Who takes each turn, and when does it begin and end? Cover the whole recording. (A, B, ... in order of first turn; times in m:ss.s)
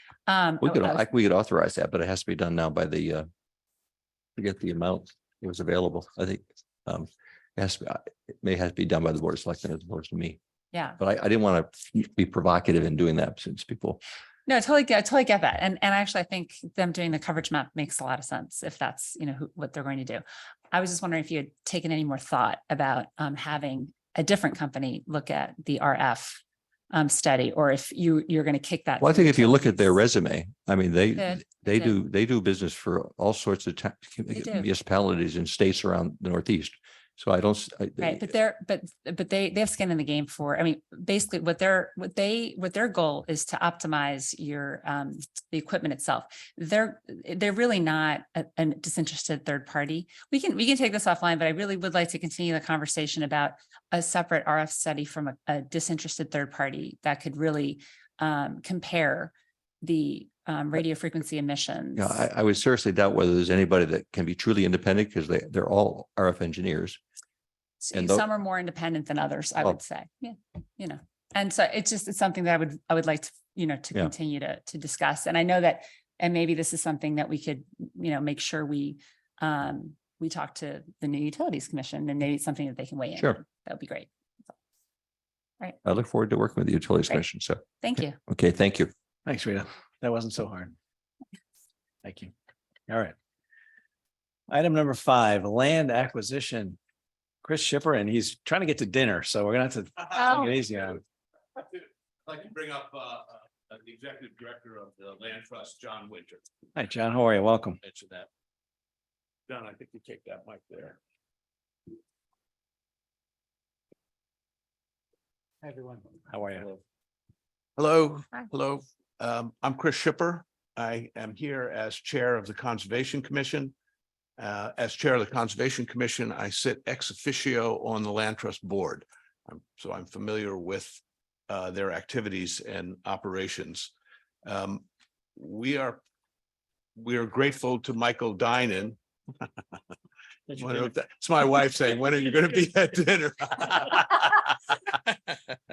0:00.3-0:01.0 A
0:00.6-0:03.3 B
0:04.4-0:10.4 B
0:10.7-0:11.0 A
0:11.0-0:14.0 B
0:14.4-0:29.9 A
0:29.0-0:38.2 B
0:31.2-0:32.0 A
0:34.3-0:34.7 A
0:38.0-1:02.2 A
1:02.0-1:07.0 B
1:07.8-1:24.1 A
1:07.9-1:08.2 B
1:25.8-1:27.6 B
1:27.8-1:28.2 A
1:28.2-1:28.9 B
1:29.2-1:30.7 C
1:32.0-1:32.3 C
1:32.9-1:33.1 C
1:34.5-1:36.8 C
1:37.4-1:41.0 C
1:42.3-1:46.4 D
1:46.7-1:47.8 C
1:47.8-1:48.3 D
1:49.5-1:51.0 D
1:56.2-1:56.7 C
1:57.8-2:03.7 D
2:04.4-2:13.9 D
2:14.4-2:14.8 D
2:15.4-2:16.0 D
2:17.0-2:19.0 D
2:20.5-2:25.4 D